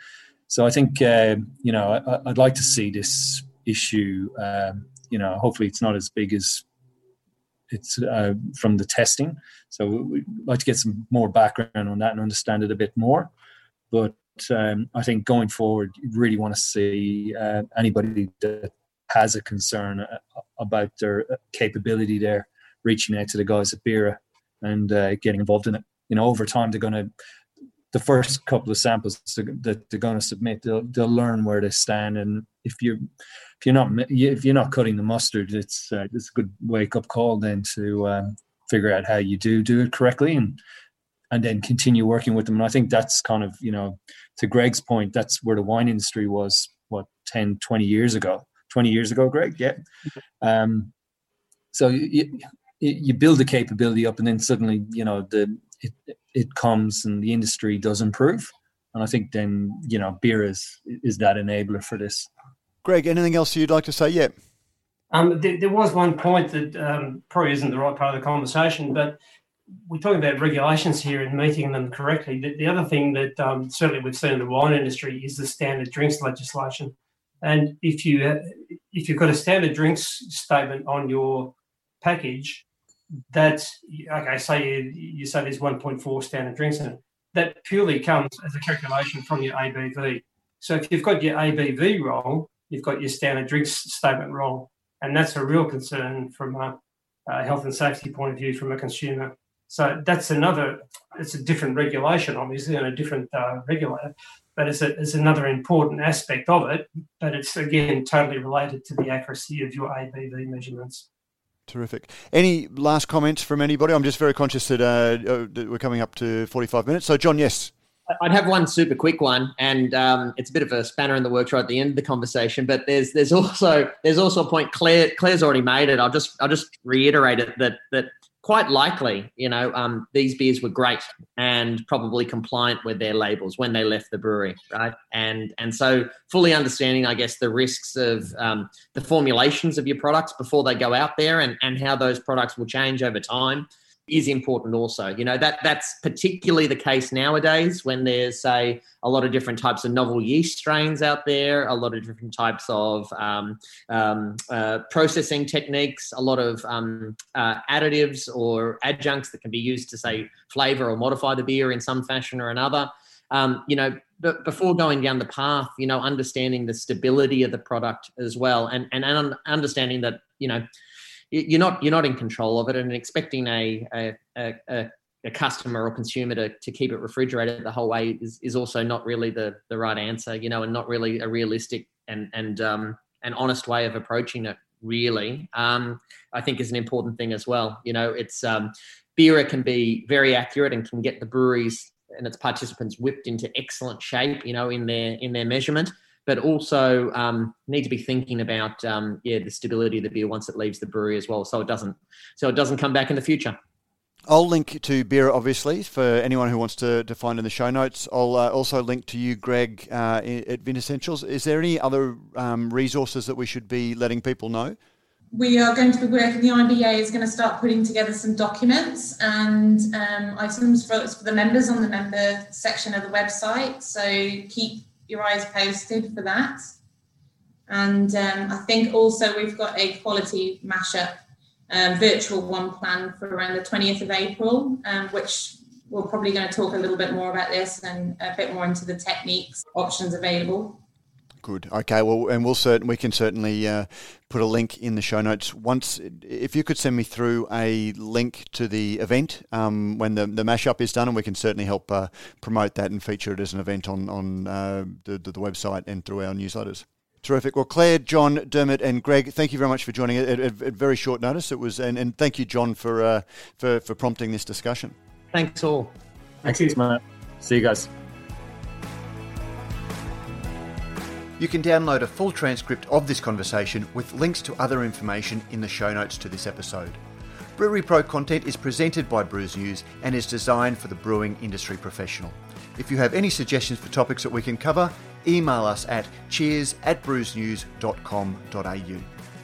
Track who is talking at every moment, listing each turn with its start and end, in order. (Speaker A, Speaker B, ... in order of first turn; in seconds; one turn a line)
Speaker A: 0.5-6.6
Speaker A: 7.7-13.3
Speaker A: 13.9-27.1
Speaker A: 27.9-33.0
Speaker A: 33.6-40.6
Speaker A: 41.3-49.8
Speaker A: 50.4-50.9
Speaker A: 51.7-62.3
Speaker B: 62.8-64.3
Speaker C: 65.1-69.2
Speaker C: 69.9-82.7
Speaker C: 83.3-96.8
Speaker C: 97.3-111.0
Speaker B: 111.7-117.7
Speaker D: 118.1-170.6
Speaker D: 171.3-203.6
Speaker B: 204.3-214.8
Speaker E: 215.3-226.7
Speaker E: 227.7-240.8
Speaker B: 241.4-264.9
Speaker D: 265.3-265.9
Speaker A: 266.4-267.9
Speaker B: 271.4-277.0
Speaker B: 277.6-289.1